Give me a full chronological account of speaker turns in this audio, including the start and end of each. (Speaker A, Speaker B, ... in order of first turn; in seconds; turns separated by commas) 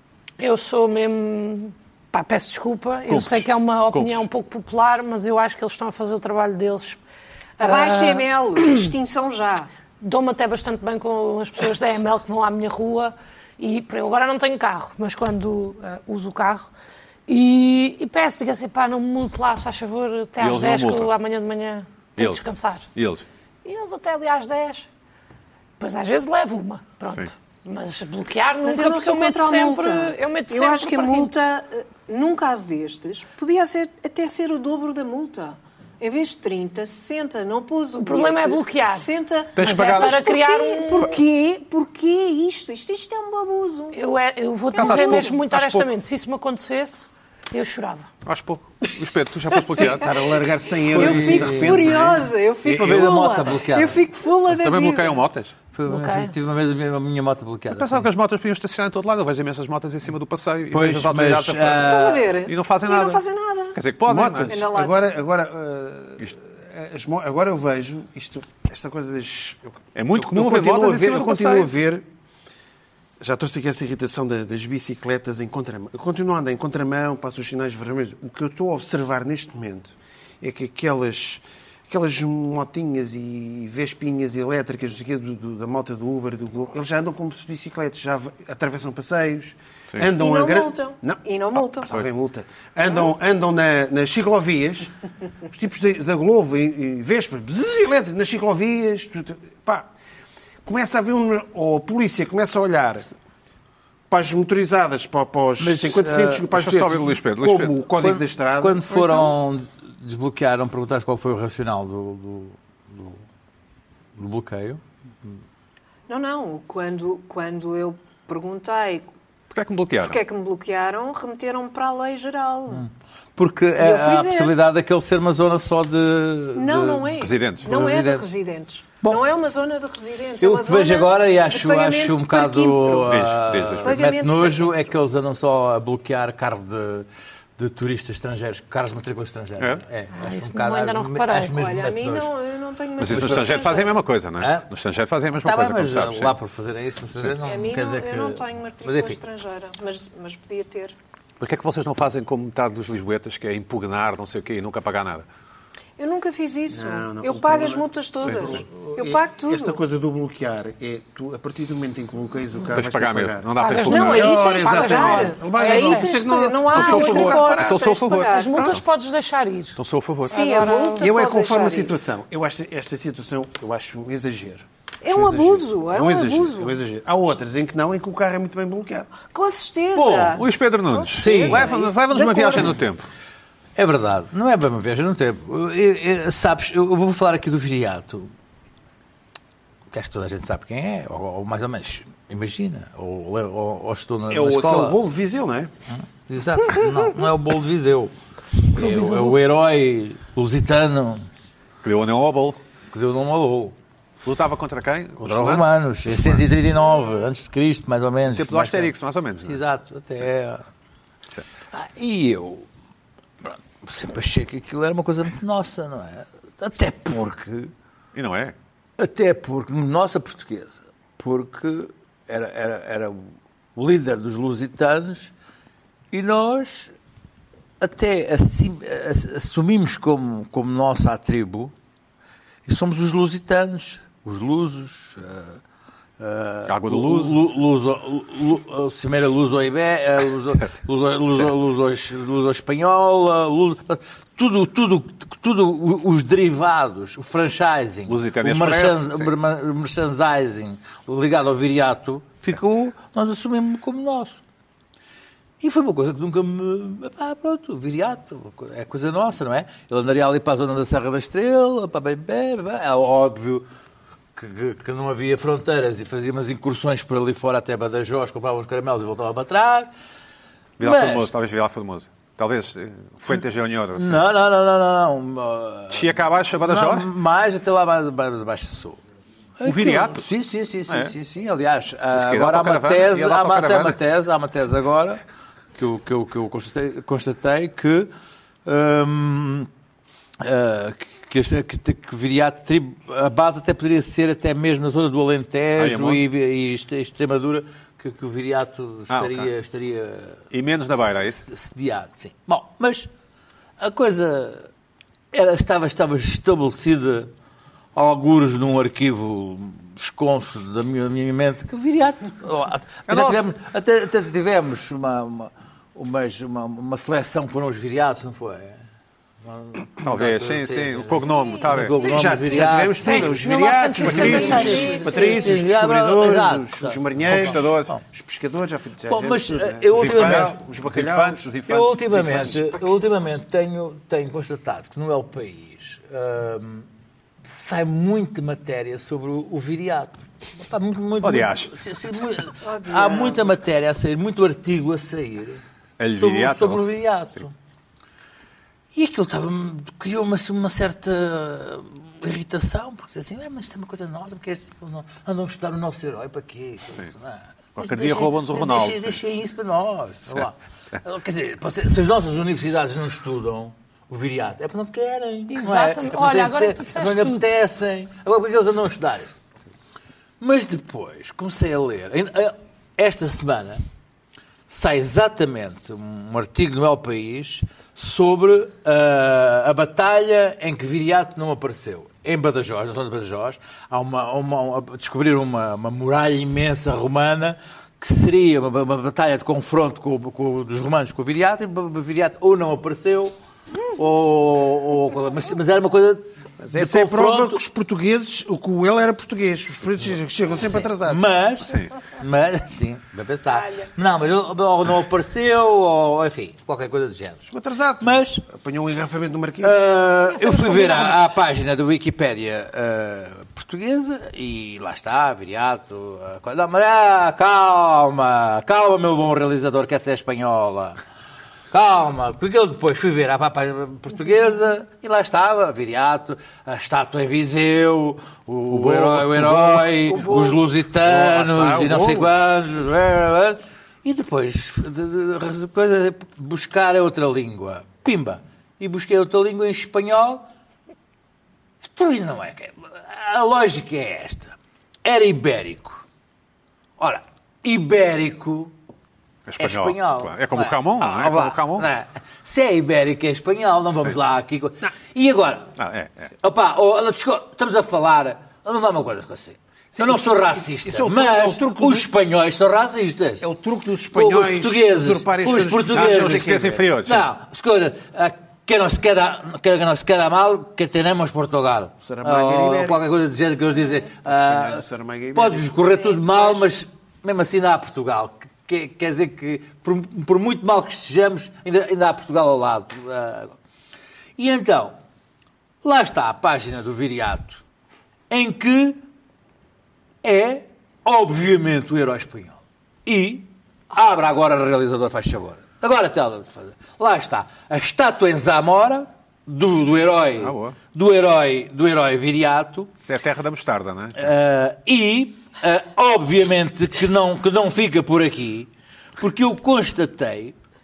Speaker A: 0.4-7.0, Speaker B: 3.1-4.2, Speaker C: 7.6-9.7, Speaker A: 7.6-8.9, Speaker A: 10.0-16.7, Speaker A: 17.3-22.9, Speaker B: 20.4-21.1, Speaker B: 22.2-22.4, Speaker B: 22.9-23.2, Speaker A: 23.6-24.9, Speaker A: 25.8-31.3, Speaker C: 28.6-44.0, Speaker A: 38.0-41.2, Speaker B: 39.5-40.2, Speaker A: 43.9-48.1, Speaker C: 44.7-45.3, Speaker B: 44.7-45.9, Speaker B: 48.2-50.1, Speaker D: 49.7-52.3, Speaker C: 49.8-50.1, Speaker E: 50.9-51.9, Speaker C: 50.9-55.2, Speaker E: 52.6-54.0, Speaker B: 54.5-55.5, Speaker E: 55.7-58.1, Speaker A: 55.9-56.3, Speaker B: 57.7-64.5, Speaker E: 60.7-62.3, Speaker C: 61.8-63.8, Speaker D: 64.1-72.0, Speaker C: 64.5-65.0, Speaker B: 69.9-71.7, Speaker D: 73.2-94.9, Speaker C: 90.1-92.0, Speaker D: 95.5-99.9, Speaker D: 100.6-103.1, Speaker D: 104.1-109.3, Speaker E: 105.6-106.5, Speaker B: 106.5-107.8, Speaker E: 108.0-113.2, Speaker E: 114.2-115.4, Speaker C: 116.1-119.1, Speaker B: 119.5-120.2, Speaker C: 120.0-122.8, Speaker E: 122.7-128.3, Speaker C: 123.8-124.5, Speaker C: 126.5-133.2, Speaker B: 127.2-127.7, Speaker E: 129.0-129.2, Speaker E: 130.4-137.1, Speaker B: 133.1-134.0, Speaker C: 133.8-134.9, Speaker E: 137.6-142.3, Speaker A: 140.1-141.6, Speaker C: 141.5-144.0, Speaker B: 143.0-146.3, Speaker E: 143.1-143.5, Speaker E: 144.4-144.7, Speaker E: 145.4-149.2, Speaker C: 147.4-150.9, Speaker B: 151.4-155.2, Speaker C: 156.0-159.8, Speaker D: 156.7-167.8, Speaker B: 158.2-158.6, Speaker B: 162.7-164.4, Speaker A: 163.6-166.1, Speaker C: 163.9-168.7, Speaker B: 166.7-168.8, Speaker A: 168.2-169.8, Speaker B: 169.8-170.4, Speaker C: 170.2-171.9, Speaker A: 170.3-171.0, Speaker D: 171.0-179.1, Speaker C: 175.0-176.8, Speaker C: 179.3-182.8, Speaker E: 179.9-180.4, Speaker B: 180.3-183.1, Speaker E: 181.1-181.8, Speaker E: 183.8-188.3, Speaker E: 189.9-195.0, Speaker D: 194.3-195.7, Speaker E: 196.3-201.3, Speaker A: 198.7-199.4, Speaker B: 201.8-202.6, Speaker E: 202.9-203.8, Speaker B: 204.2-205.7, Speaker E: 205.2-210.6, Speaker B: 208.3-209.6, Speaker E: 211.7-212.7, Speaker E: 213.4-217.7, Speaker B: 218.1-218.5, Speaker E: 219.0-225.3, Speaker E: 226.1-226.9, Speaker E: 227.8-231.7, Speaker E: 232.7-235.6, Speaker E: 236.2-254.4, Speaker B: 236.7-237.4, Speaker B: 241.3-241.5, Speaker B: 248.1-249.3, Speaker E: 255.6-263.7, Speaker E: 264.4-269.9, Speaker B: 270.8-274.2, Speaker E: 270.8-271.3, Speaker E: 273.9-279.0, Speaker B: 275.9-277.1, Speaker E: 279.6-285.2, Speaker B: 279.6-280.2, Speaker B: 280.9-281.1, Speaker B: 282.1-284.0, Speaker E: 285.8-288.1, Speaker E: 288.6-289.7, Speaker E: 290.4-303.1, Speaker B: 295.8-296.2, Speaker B: 299.1-299.5, Speaker B: 300.5-301.4, Speaker E: 303.8-304.7, Speaker E: 305.3-307.3, Speaker E: 307.9-318.8, Speaker B: 313.1-313.5, Speaker E: 319.4-323.3, Speaker B: 320.0-322.0, Speaker C: 321.3-322.4, Speaker D: 322.0-331.5, Speaker A: 323.0-325.4, Speaker E: 324.0-328.0, Speaker C: 324.2-325.5, Speaker B: 327.3-327.9, Speaker E: 329.1-330.6, Speaker B: 329.9-332.6, Speaker E: 331.7-336.9, Speaker C: 332.2-333.0, Speaker E: 337.4-345.6, Speaker B: 341.2-341.7, Speaker C: 342.6-343.5, Speaker B: 346.0-346.9, Speaker E: 346.2-347.5, Speaker E: 348.9-369.3, Speaker B: 357.8-359.2, Speaker B: 360.3-361.0, Speaker A: 365.5-367.5, Speaker E: 370.4-373.8, Speaker E: 374.7-393.3, Speaker E: 393.9-397.6, Speaker D: 396.6-401.2, Speaker E: 400.6-407.5, Speaker B: 401.7-401.9, Speaker C: 403.6-403.8, Speaker D: 407.5-409.8, Speaker E: 408.0-408.4, Speaker E: 409.6-421.0, Speaker A: 410.3-411.2, Speaker E: 421.7-440.4, Speaker B: 428.7-429.8, Speaker C: 430.1-430.6, Speaker D: 430.9-432.4, Speaker E: 441.8-446.0, Speaker E: 447.0-448.7, Speaker B: 449.5-451.9, Speaker E: 449.6-455.7, Speaker B: 455.8-456.3, Speaker E: 456.4-463.4, Speaker D: 459.9-462.1, Speaker D: 463.4-466.9, Speaker E: 464.1-483.5, Speaker B: 465.9-467.3, Speaker D: 472.0-473.1, Speaker D: 474.2-475.7, Speaker C: 475.8-476.7, Speaker E: 484.4-485.0, Speaker E: 485.8-487.6, Speaker E: 488.3-489.0, Speaker E: 490.2-502.9, Speaker B: 500.4-500.8, Speaker B: 503.0-504.3, Speaker E: 504.2-510.5